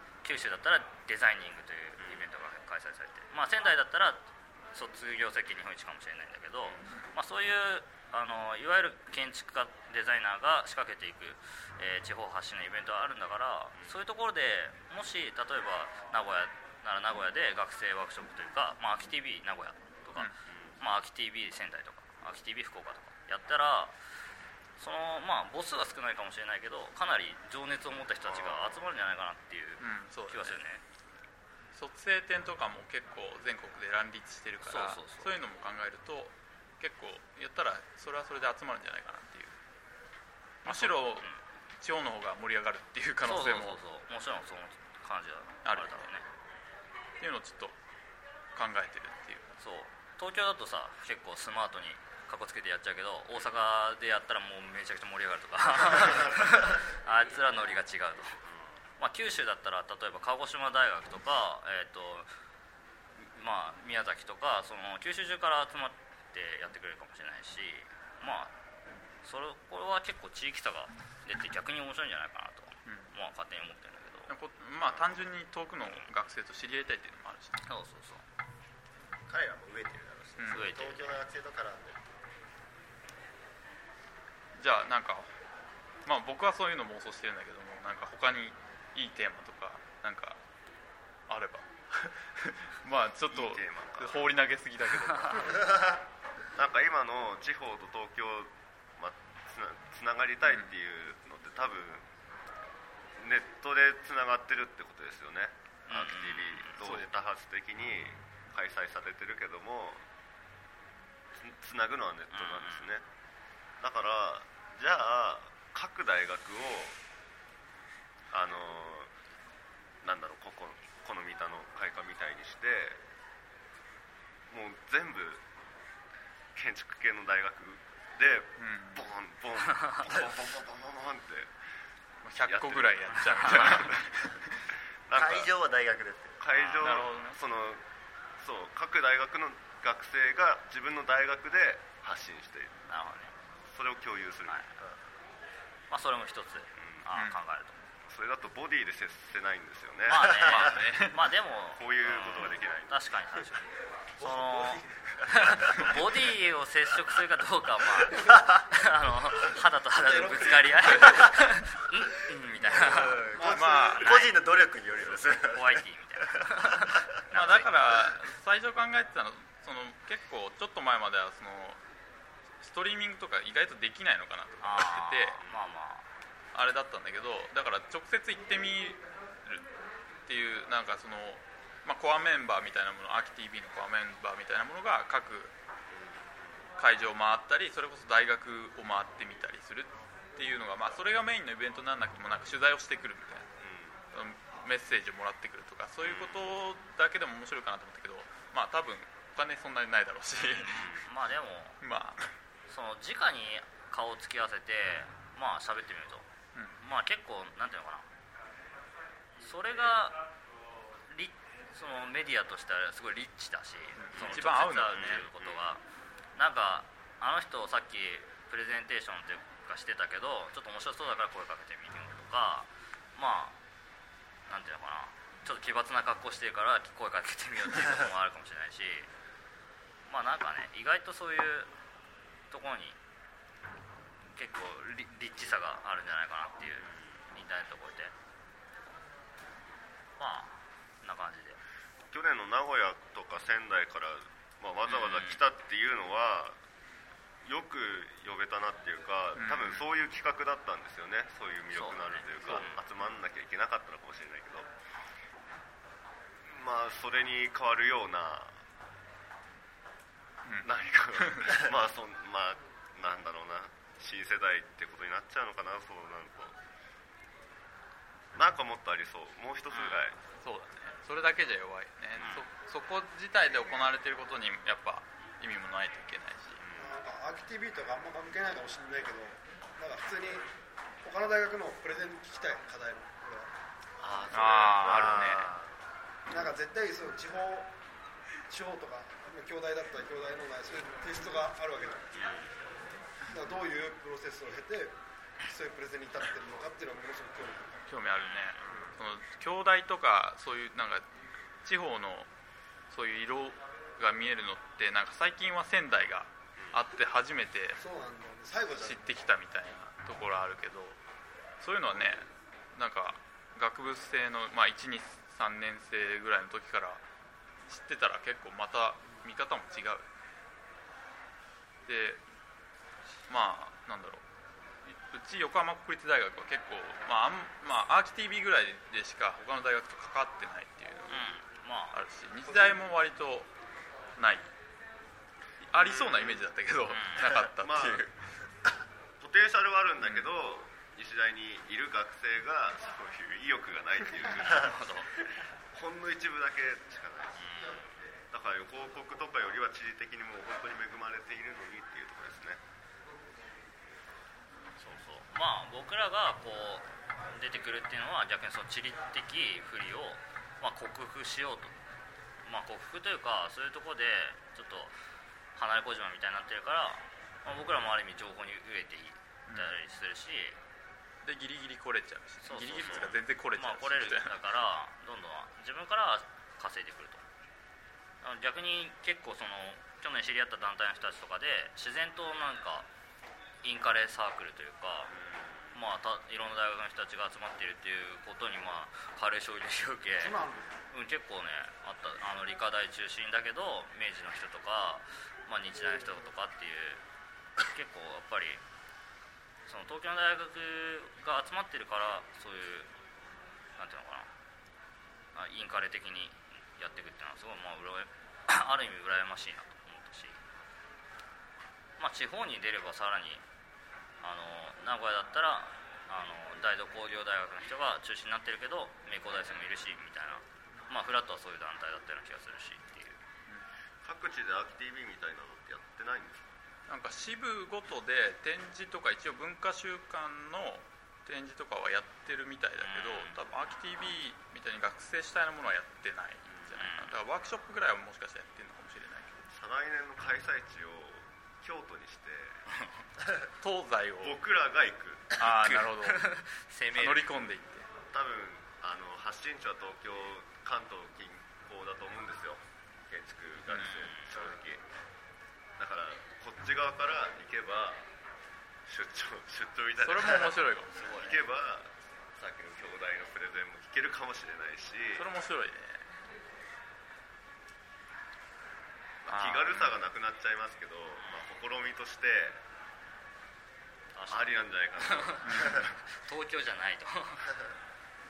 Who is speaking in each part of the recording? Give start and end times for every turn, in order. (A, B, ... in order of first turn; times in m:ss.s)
0:00.2-0:23.9 A
0:02.0-0:02.2 B
0:20.5-0:20.8 B
0:24.8-0:30.8 A
0:28.3-0:28.7 B
0:29.8-0:30.6 C
0:31.7-0:39.6 C
0:34.6-0:35.4 A
0:40.6-0:43.8 C
0:40.6-0:41.4 A
0:43.2-0:46.2 A
0:45.6-0:46.1 C
0:47.2-0:47.8 C
0:48.5-0:49.6 C
0:49.6-0:58.4 A
0:59.0-1:02.3 A
1:03.2-1:08.5 A
1:09.2-1:14.3 A
1:14.3-1:17.6 C
1:17.6-1:18.2 A
1:19.3-1:22.1 D
1:20.4-1:20.7 C
1:20.5-1:21.1 A
1:24.6-1:25.3 C
1:26.0-1:30.4 C
1:31.3-1:35.9 C
1:33.3-1:34.2 B
1:36.5-1:42.1 B
1:43.2-1:50.0 B
1:45.9-1:46.8 A
1:51.3-1:53.0 B
1:52.3-1:52.8 A
1:53.8-1:57.0 B
1:58.3-1:59.1 B
2:00.0-2:03.0 B
2:04.5-2:05.4 B
2:06.5-2:11.5 B
2:08.6-2:09.0 C
2:12.2-2:14.6 C
2:12.4-2:14.1 B
2:15.1-2:15.5 B
2:15.1-2:16.4 D
2:16.4-2:17.8 B
2:16.5-2:17.0 A
2:16.8-2:17.4 C
2:18.4-2:22.8 B
2:22.9-2:23.3 A
2:23.7-2:24.6 B
2:25.9-2:27.8 A
2:26.8-2:27.0 B
2:27.1-2:27.4 C
2:28.1-2:30.8 B
2:30.1-2:33.6 A
2:30.4-2:31.2 C
2:31.8-2:32.9 B
2:34.2-2:43.3 A
2:34.2-2:35.6 E
2:40.0-2:41.3 E
2:40.8-2:41.3 C
2:42.6-2:47.0 D
2:43.3-2:44.0 E
2:43.4-2:44.2 C
2:44.0-2:44.3 A
2:45.4-2:47.7 A
2:47.3-2:51.8 C
2:52.6-2:55.4 C
2:54.6-2:56.0 A
2:56.5-2:59.7 C
3:00.2-3:05.5 C
3:05.9-3:06.4 B
3:06.8-3:13.4 C
3:13.6-3:14.0 B
3:14.1-3:20.8 C
3:16.0-3:16.5 B
3:20.4-3:21.8 A
3:20.6-3:21.0 B
3:21.8-3:22.3 C
3:22.7-3:28.0 A
3:29.4-3:30.2 A
3:31.1-3:35.8 A
3:34.0-3:35.3 C
3:34.9-3:35.7 B
3:36.4-3:43.6 A
3:44.5-3:49.1 A
3:50.1-3:51.7 A
3:52.5-3:53.0 A
3:54.3-3:58.1 A
4:00.2-4:01.6 A
4:02.1-4:06.6 B
4:04.8-4:05.4 A
4:07.4-4:14.7 B
4:09.4-4:09.8 C
4:11.7-4:12.8 A
4:12.4-4:12.7 C
4:16.4-4:18.6 B
4:20.4-4:21.6 C
4:20.6-4:26.6 B
4:28.3-4:30.2 B
4:29.7-4:30.0 A
4:30.4-4:36.6 C
4:32.2-4:32.4 A
4:36.6-4:37.0 B
4:36.8-4:40.5 E
4:41.0-4:43.5 E
4:44.0-4:45.6 B
4:44.3-4:45.5 C
4:44.8-4:45.6 D
4:46.3-4:47.7 E
4:48.5-4:52.2 E
4:52.2-4:52.5 B
4:53.3-4:57.8 E
4:57.8-5:01.1 C
4:58.2-4:58.5 A
5:01.6-5:02.3 C
5:02.9-5:07.8 C
5:07.8-5:09.2 E
5:08.7-5:11.0 C
5:11.6-5:17.0 C
5:17.7-5:20.0 C
5:21.8-5:22.2 C
5:23.3-5:24.2 C
5:24.8-5:31.3 C
5:31.1-5:32.0 A
5:31.9-5:33.5 C
5:32.4-5:32.8 E
5:34.2-5:34.5 C
5:35.6-5:38.2 C
5:35.8-5:36.4 B
5:36.9-5:37.3 A
5:37.4-5:38.0 B
5:39.2-5:44.7 B
5:40.0-5:40.3 C
5:44.4-5:45.1 A
5:45.7-5:47.4 B
5:47.4-5:47.8 A
5:48.3-5:52.6 B
5:54.8-6:01.8 A
6:02.4-6:04.9 A
6:05.6-6:10.6 A
6:09.5-6:09.7 C
6:11.2-6:14.4 C
6:12.4-6:17.2 A
6:12.8-6:13.1 B
6:18.2-6:22.9 A
6:23.6-6:25.1 A
6:25.1-6:25.7 B
6:25.7-6:30.4 A
6:30.2-6:30.7 E
6:30.9-6:37.0 A
6:37.6-6:38.6 A
6:39.7-6:42.9 A
6:43.8-6:44.3 A
6:45.3-6:50.4 A
6:52.0-6:53.4 A
6:54.2-7:03.2 A
7:04.0-7:06.5 B
7:06.9-7:19.4 C
7:12.8-7:13.4 A
7:16.5-7:16.7 B
7:16.8-7:17.1 A
7:19.5-7:22.6 B
7:23.6-7:24.4 C
7:24.2-7:25.3 B
7:25.3-7:26.2 C
7:25.4-7:27.2 A
7:26.9-7:27.8 C
7:28.1-7:34.8 B
7:33.7-7:34.0 C
7:33.7-7:34.5 A
7:35.8-7:38.0 B
7:38.9-7:45.2 B
7:40.0-7:40.9 C
7:40.9-7:41.4 A
7:45.1-7:46.1 C
7:49.2-7:52.6 B
7:49.3-7:50.0 C
7:54.2-7:57.5 A
7:54.3-7:55.8 B
7:55.4-7:55.9 C